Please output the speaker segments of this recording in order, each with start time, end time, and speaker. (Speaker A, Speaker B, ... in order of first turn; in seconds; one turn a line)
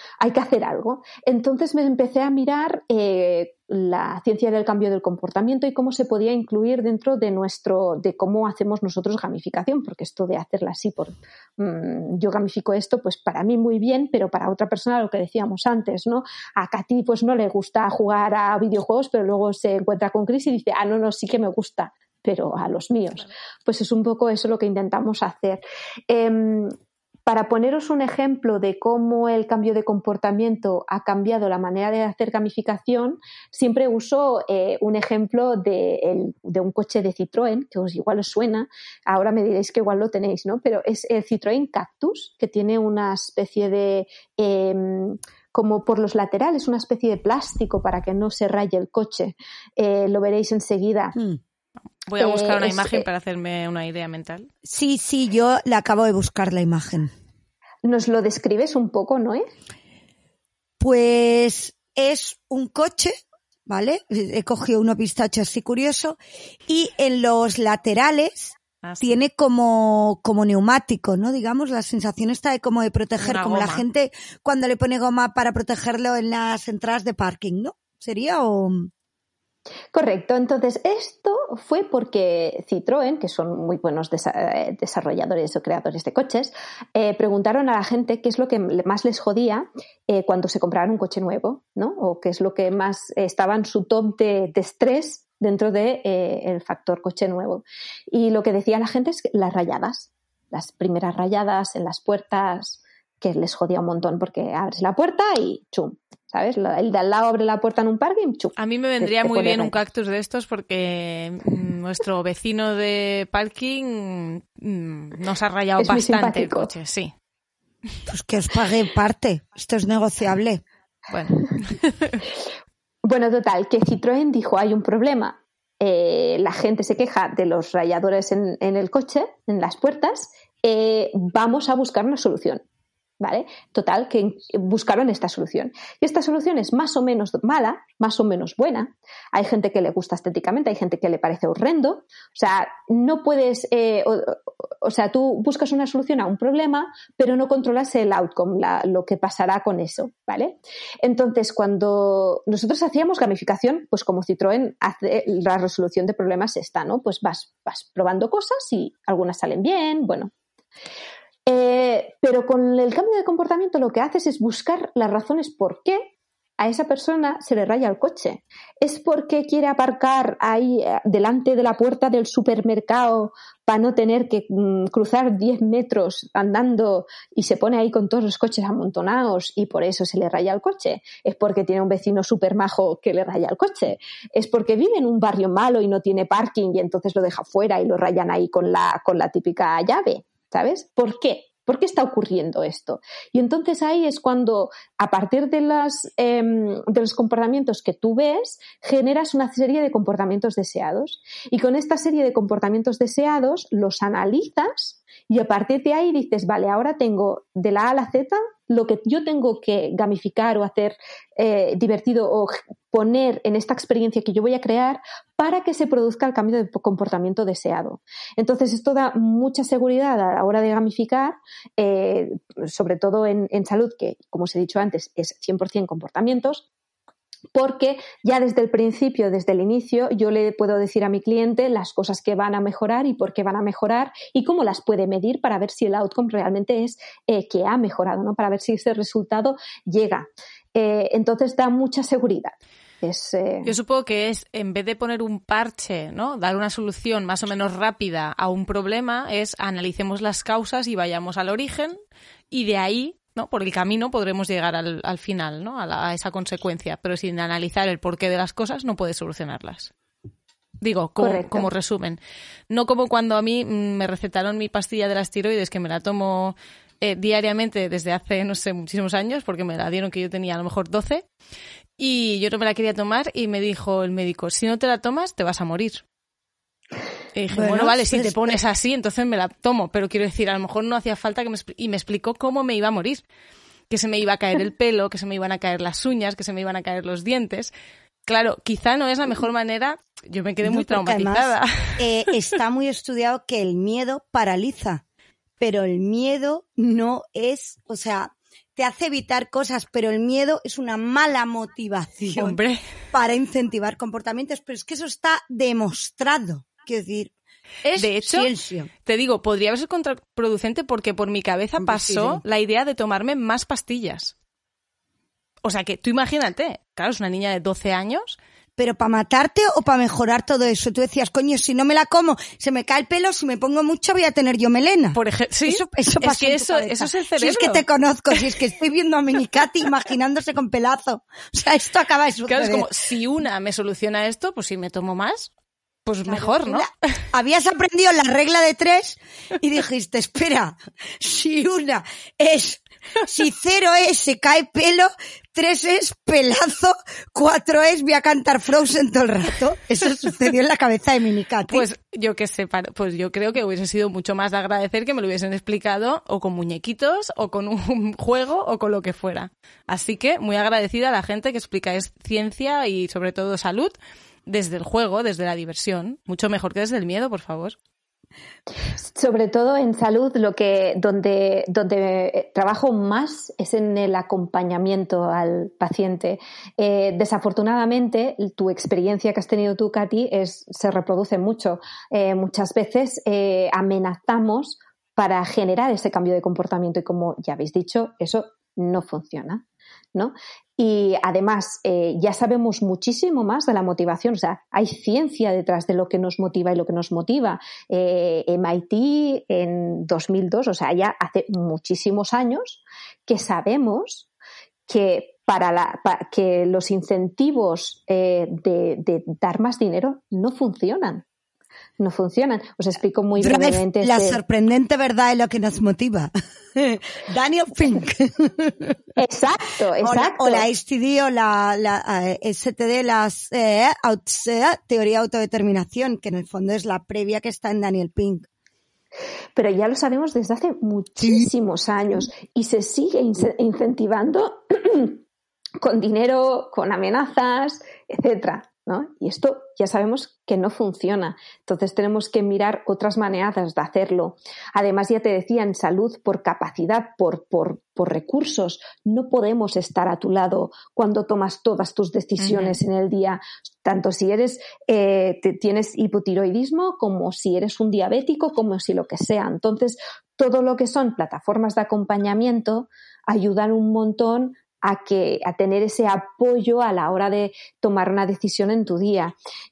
Speaker A: 0.2-51.1
Speaker B: 52.1-54.5
Speaker A: 52.2-53.0
Speaker C: 54.6-57.1
Speaker A: 57.8-59.4
Speaker C: 60.8-78.9
Speaker B: 68.8-69.2
Speaker B: 73.2-73.8
Speaker A: 79.9-109.7
Speaker B: 108.6-117.1
Speaker A: 115.8-116.7
Speaker C: 118.1-120.6
Speaker B: 121.1-122.2
Speaker A: 123.0-132.6
Speaker A: 133.2-160.3
Speaker A: 161.5-226.6
Speaker A: 227.5-243.7
Speaker B: 243.6-252.0
Speaker B: 252.5-259.9
Speaker B: 260.8-271.2
Speaker A: 261.2-261.7
Speaker B: 272.0-276.0
Speaker B: 277.3-283.2
Speaker C: 277.5-278.5
Speaker B: 283.9-287.7
Speaker B: 288.3-292.0
Speaker C: 290.6-295.0
Speaker C: 295.6-302.6
Speaker B: 302.4-302.8
Speaker C: 303.1-307.3
Speaker C: 307.8-308.9
Speaker B: 307.9-308.5
Speaker B: 309.1-314.3
Speaker C: 311.8-312.4
Speaker B: 315.6-318.4
Speaker C: 318.8-332.9
Speaker B: 325.1-328.4
Speaker B: 332.5-335.5
Speaker B: 336.1-336.9
Speaker C: 336.2-351.9
Speaker B: 351.7-363.9
Speaker B: 364.4-367.8
Speaker A: 369.0-389.6
Speaker A: 390.1-404.3
Speaker A: 404.9-411.2
Speaker A: 412.0-414.4
Speaker C: 413.4-418.9
Speaker A: 419.2-420.7
Speaker C: 420.0-428.5
Speaker A: 429.6-435.2
Speaker C: 431.2-431.5
Speaker A: 435.8-469.3
Speaker B: 452.4-452.8